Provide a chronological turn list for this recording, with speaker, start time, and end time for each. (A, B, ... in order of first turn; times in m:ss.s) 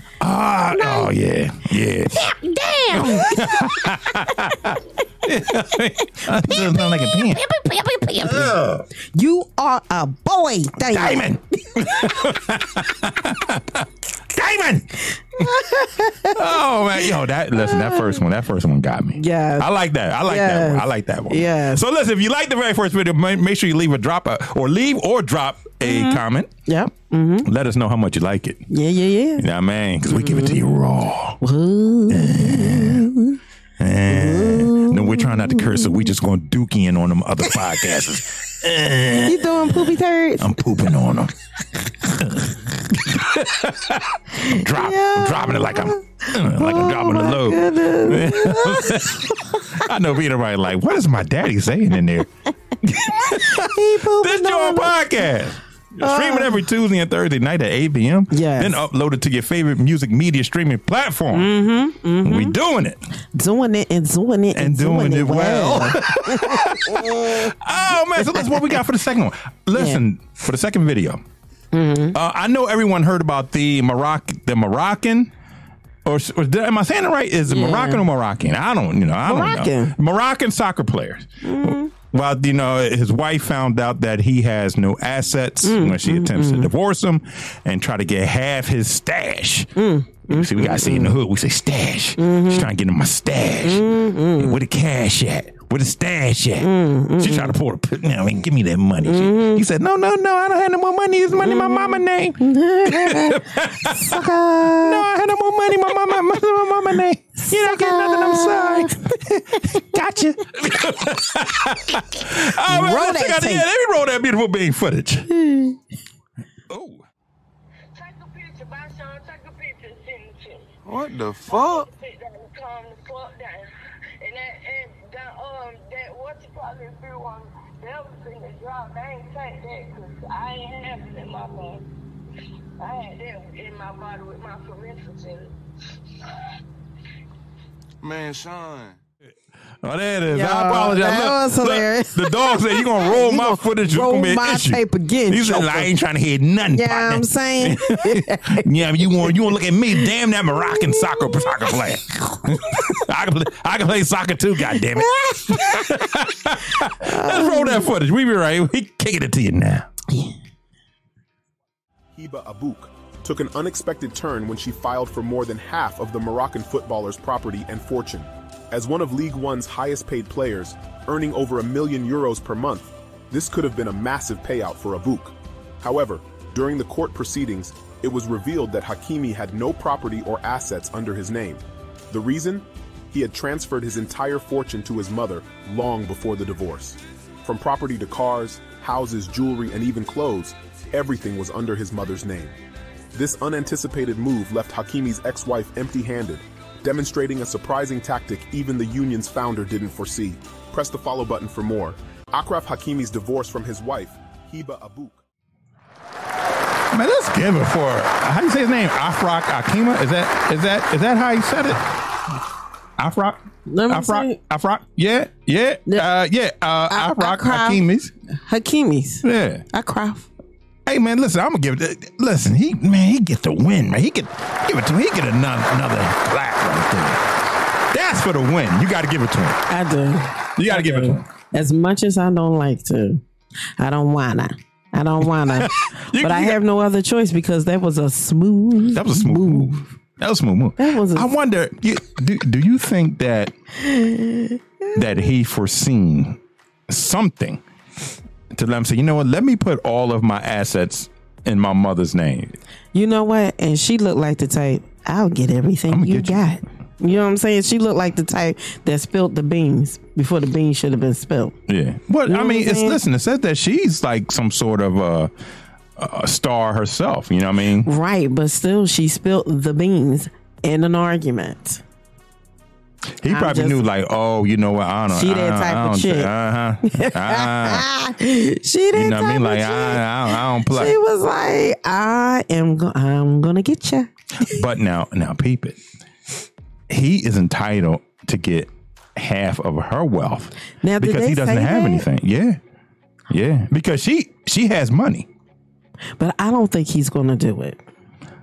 0:00.2-0:02.3 A
0:00.7-0:01.1 B
0:02.1-0:04.7 B
0:02.9-0:07.4 A
0:06.1-0:12.1 B
0:08.2-0:08.8 A
0:10.9-0:15.5 A
0:15.1-0:16.4 B
0:16.2-0:26.5 A
0:17.0-0:18.2 B
0:19.1-0:19.7 B
0:20.2-0:21.8 B
0:25.8-0:27.5 B
0:27.4-0:28.6 A
0:28.7-0:29.4 B
0:29.4-0:31.4 A
0:30.1-0:30.6 B
0:31.4-0:33.4 B
0:32.1-0:33.1 A
0:33.8-0:41.3 A
0:34.0-0:36.1 B
0:39.2-0:40.8 B
0:42.1-0:52.3 A
0:44.4-0:49.9 B
0:52.8-1:01.5 A
0:53.0-0:55.0 B
0:56.0-0:56.6 B
0:58.3-0:58.8 B
1:01.3-1:02.6 B
1:02.2-1:03.0 A
1:03.3-1:07.5 B
1:04.5-1:11.2 A
1:08.2-1:08.8 B
1:09.7-1:10.0 B
1:11.7-1:12.2 B
1:12.1-1:15.3 A
1:16.0-1:29.7 A
1:17.5-1:18.0 B
1:19.2-1:19.9 B
1:21.4-1:21.9 B
1:25.6-1:26.7 B
1:29.8-1:31.2 B
1:30.3-1:55.3 A
1:32.2-1:32.7 B
1:33.6-1:34.6 B
1:36.6-1:37.6 B
1:39.0-1:39.6 B
1:41.4-1:45.1 B
1:47.4-1:49.0 B
1:52.6-1:53.6 B
1:55.3-1:55.8 B
1:56.7-1:57.0 A
1:57.9-2:00.7 C
2:00.8-2:01.9 D
2:01.4-2:11.8 C
2:12.8-2:15.5 C
2:16.2-2:16.5 C
2:18.0-2:19.0 D
2:19.3-2:39.9 A
2:20.3-2:25.9 B
2:26.7-2:29.4 B
2:30.7-2:32.4 B
2:34.7-2:36.1 B
2:36.9-2:37.9 B
2:42.1-3:12.6 E
3:13.1-3:25.2 E
3:26.9-3:31.9 A
3:33.0-3:38.1 A
3:33.7-3:34.4 B
3:36.9-3:37.8 B
3:38.4-3:40.3 B
3:39.2-3:39.6 A
3:40.8-3:47.2 A
3:47.9-3:49.6 A
3:49.7-3:53.2 B
3:50.5-3:51.2 A
3:53.8-3:59.9 B
3:55.5-3:56.6 A
3:58.9-4:03.5 A
4:00.8-4:01.3 B
4:03.8-4:04.9 B
4:04.9-4:07.6 A
4:08.5-4:12.6 A
4:12.9-4:21.5 B
4:15.9-4:16.4 A
4:21.7-4:25.3 A
4:22.2-4:23.0 B
4:26.0-4:27.9 A
4:27.8-4:31.8 B
4:33.2-4:37.8 A
4:33.3-4:33.8 B
4:35.1-4:36.3 B
4:36.8-4:44.5 B
4:38.9-4:40.9 A
4:44.4-4:45.8 A
4:46.9-4:52.6 A
4:50.8-4:52.1 B
4:53.3-4:55.3 A
4:56.2-4:57.8 B